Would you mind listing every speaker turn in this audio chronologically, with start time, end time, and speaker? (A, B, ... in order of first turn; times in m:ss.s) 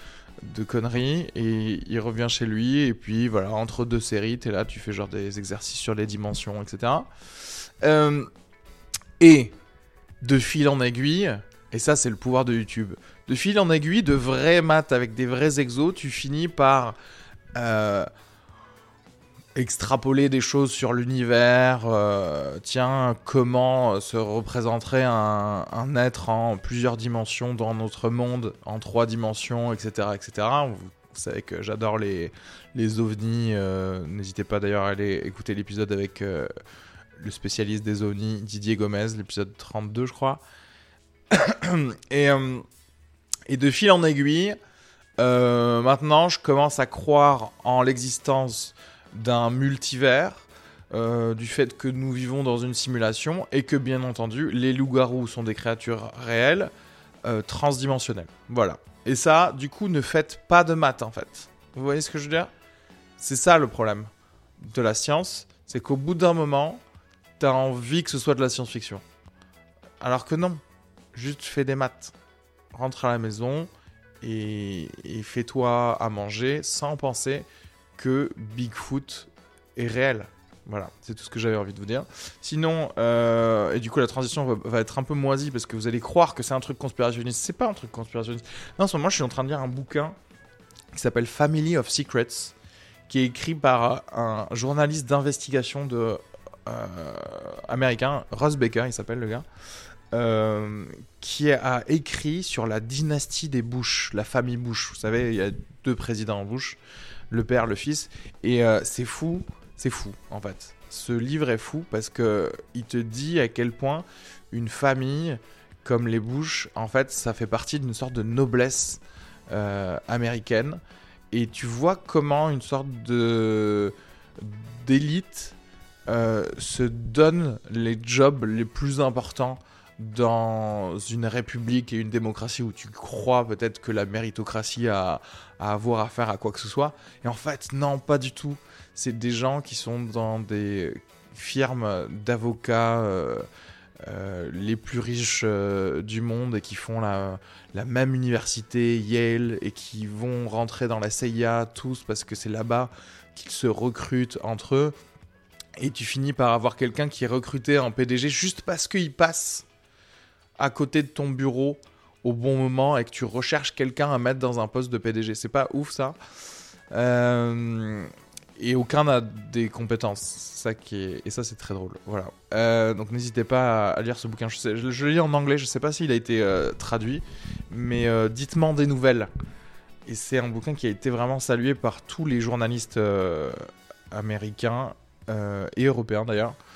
0:00.4-0:07.1 A
0:07.8-0:08.3 A
0:09.2-0:09.6 A
0:10.2-0:17.0 A
0:17.5-0:18.1 A
0:19.6-0:36.5 A
0:37.2-0:40.4 A
0:41.3-0:42.6 A
0:43.5-0:44.6 A
0:45.2-0:56.7 A
0:57.2-1:02.5 A
1:03.2-1:04.1 A
1:04.6-1:06.8 A
1:07.4-1:09.0 A
1:10.0-1:10.6 A
1:11.1-1:12.1 A
1:12.7-1:13.7 A
1:14.2-1:30.1 A
1:30.9-1:32.5 A
1:33.1-1:39.4 A
1:40.1-1:46.8 A
1:47.3-2:00.8 A
2:01.3-2:05.6 A
2:06.1-2:23.5 A
2:24.0-2:34.9 A
2:35.8-2:39.6 A
2:40.6-2:46.2 A
2:46.9-2:59.3 A
3:00.0-3:06.6 A